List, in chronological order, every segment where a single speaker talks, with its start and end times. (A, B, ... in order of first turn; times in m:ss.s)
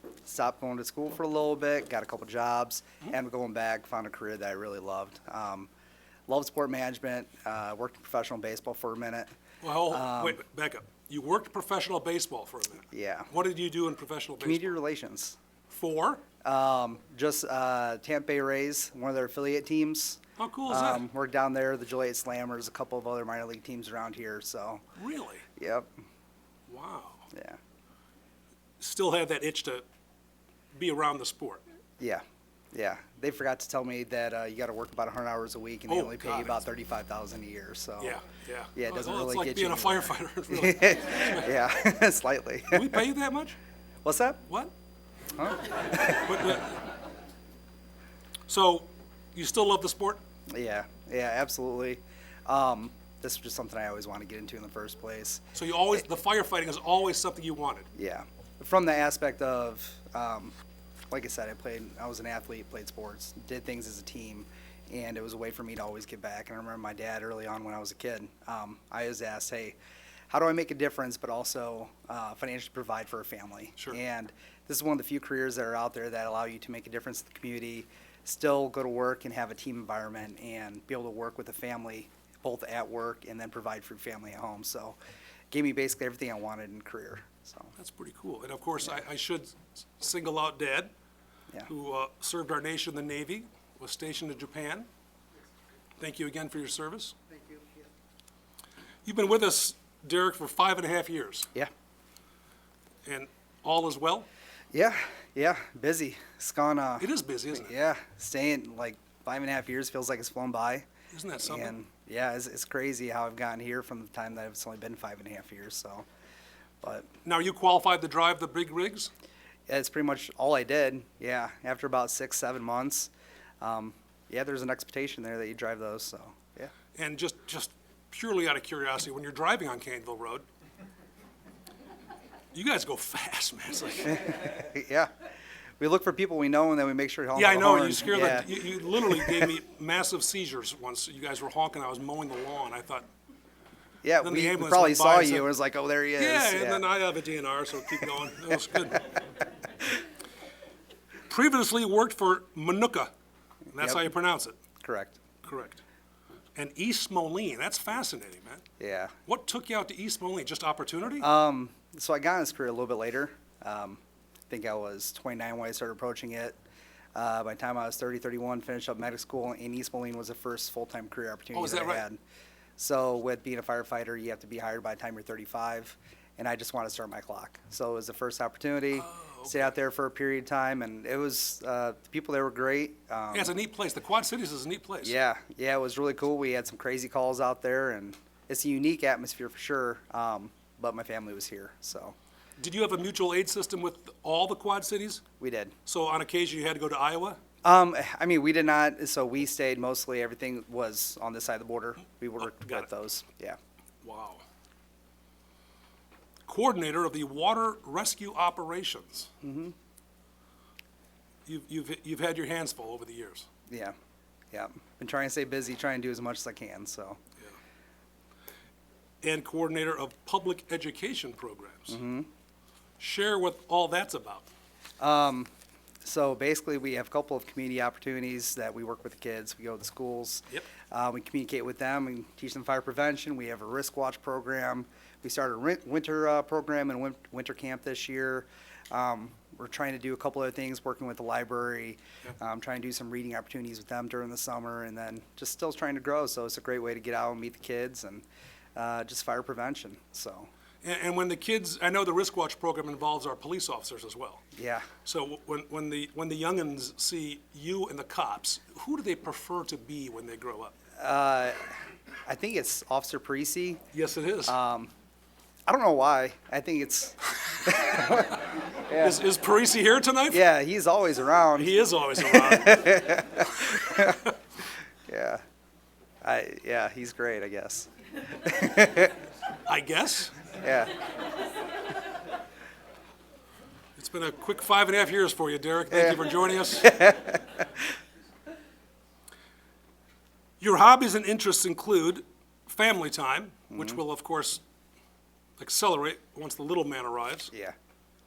0:00.3-0:05.7 A
0:06.3-0:09.3 A
0:09.6-0:14.8 B
0:09.9-0:10.4 A
0:12.9-0:13.3 A
0:14.4-0:15.4 A
0:15.7-0:16.2 B
0:16.4-0:24.8 A
0:20.4-0:21.0 B
0:25.0-0:25.4 B
0:25.6-0:25.9 A
0:26.7-0:27.3 B
0:27.3-0:27.6 A
0:28.8-0:29.8 B
0:30.7-0:31.6 B
0:32.0-0:38.2 A
0:35.9-0:36.6 B
0:38.0-0:41.6 B
0:38.8-0:43.1 A
0:42.7-0:43.6 B
0:44.0-0:44.4 A
0:45.4-0:46.6 A
0:46.3-0:46.8 B
0:48.5-0:50.2 B
0:50.5-0:55.4 A
0:55.6-0:57.9 B
0:58.0-1:00.6 A
1:01.1-1:09.8 A
1:10.3-1:25.0 A
1:25.5-1:27.7 A
1:27.8-1:30.9 B
1:31.7-1:34.9 B
1:36.0-1:37.2 B
1:37.3-1:37.8 A
1:39.0-1:41.5 B
1:43.0-1:44.3 B
1:44.7-1:50.9 A
1:47.0-1:47.7 B
1:51.1-1:51.8 B
1:51.4-1:56.0 A
1:56.8-1:57.1 A
1:57.2-1:59.1 B
1:59.7-2:06.7 A
2:07.0-2:10.4 B
2:12.5-2:14.4 B
2:14.1-2:15.1 A
2:15.8-2:19.5 A
2:17.4-2:23.1 B
2:24.0-2:26.8 A
2:24.2-2:25.5 B
2:26.2-2:29.0 B
2:31.3-2:33.1 B
2:33.7-2:34.6 B
2:34.8-2:35.2 A
2:35.4-2:35.8 B
2:36.6-2:38.6 B
2:38.8-2:39.1 A
2:39.3-2:41.3 B
2:41.2-2:46.6 A
2:47.2-2:52.2 A
2:51.5-2:52.0 B
2:52.8-3:03.5 A
2:59.0-2:59.7 B
3:03.3-3:05.2 B
3:05.0-3:12.2 A
3:12.6-3:15.2 B
3:15.4-3:15.8 A
3:15.9-3:17.4 B
3:17.6-3:23.6 A
3:22.6-3:22.8 B
3:24.0-3:24.4 B
3:26.5-3:29.3 B
3:29.4-3:29.7 A
3:31.5-3:33.5 B
3:33.7-3:34.0 A
3:34.5-3:37.2 A
3:39.2-3:42.0 B
3:41.9-3:42.3 A
3:43.0-3:44.5 B
3:45.0-3:45.5 A
3:46.0-4:08.2 A
4:08.8-4:10.5 A
4:10.8-4:14.4 B
4:14.6-4:14.9 A
4:15.0-4:20.8 B
4:21.0-4:21.7 A
4:22.3-4:23.8 A
4:23.9-4:24.6 B
4:24.5-4:24.9 A
4:25.7-4:29.2 A
4:28.9-4:30.4 B
4:30.3-4:34.3 A
4:31.6-4:33.2 B
4:33.9-4:34.2 B
4:35.1-4:35.4 A
4:36.2-4:39.2 A
4:39.7-4:40.4 B
4:40.6-4:41.0 A
4:44.0-4:47.0 B
4:46.8-4:47.6 A
4:50.6-4:54.6 B
4:53.7-4:54.0 A
4:55.6-4:57.5 B